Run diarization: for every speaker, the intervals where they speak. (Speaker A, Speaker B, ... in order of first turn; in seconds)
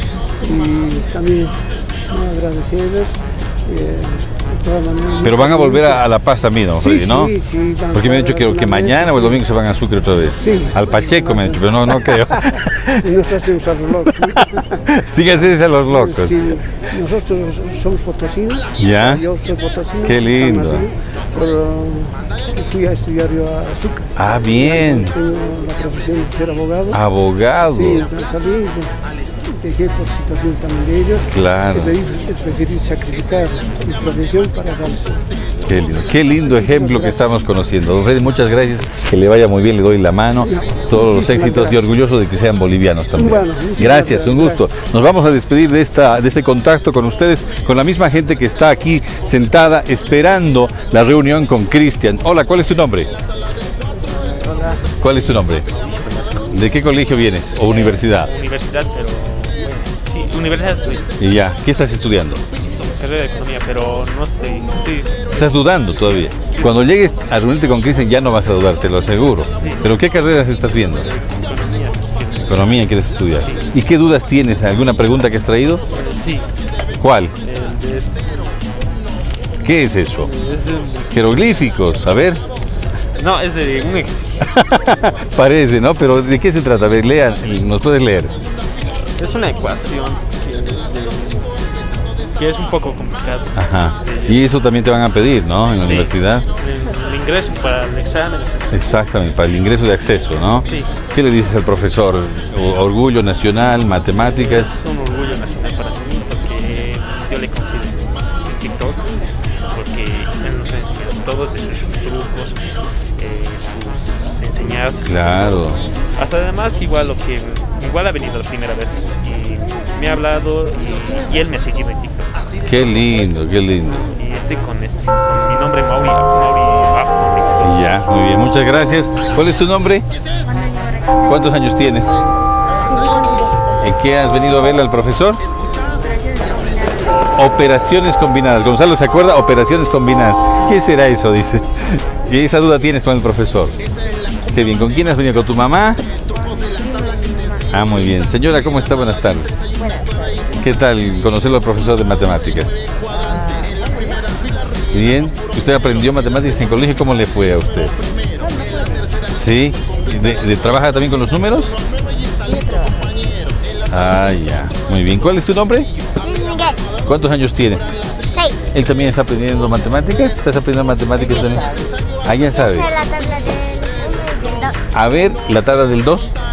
Speaker A: 0.4-1.6, 2.1-6.0, 6.7-9.4, 10.3-14.8, 15.9-27.0, 27.7-28.9, 29.5-35.4, 36.4-37.2, 40.4-41.8, 43.1-44.6
Speaker B: 5.2-7.3, 7.9-13.0, 14.2-16.4, 18.8-19.2, 20.0-20.9, 24.2-25.1, 26.9-28.1, 31.3-31.9, 35.7-53.1, 55.0-55.7, 56.5-58.3, 61.2-62.5, 65.3-71.1, 72.4-75.8, 77.0-77.3, 79.6-80.3, 81.1-82.4, 84.5-88.3, 93.5-96.5, 98.7-104.7, 115.0-115.8, 122.7-124.1, 127.6-130.1, 131.3-132.2, 133.8-135.4, 137.4-143.8, 144.5-146.0, 147.7-149.5, 150.6-152.7, 154.9-157.9, 159.3-161.7, 163.9-165.9, 167.1-167.8, 168.7-171.7, 172.2-172.9, 174.9-176.3
Speaker C: 54.1-56.7, 57.6-61.1, 63.0-66.8, 69.6-69.9, 71.0-72.7, 73.4-73.7, 75.9-76.5, 77.4-78.5, 80.2-81.1, 83.2-84.4, 89.2-91.5, 92.4-94.4, 95.8-98.8, 100.7-100.9, 104.2-109.0, 109.6-112.6, 113.2-122.3, 124.2-127.9
Speaker D: 130.4-131.6, 132.9-133.6, 135.9-137.4, 146.6-147.6, 149.8-150.5, 153.2-153.9, 166.2-166.8, 171.3-171.6, 172.6-174.8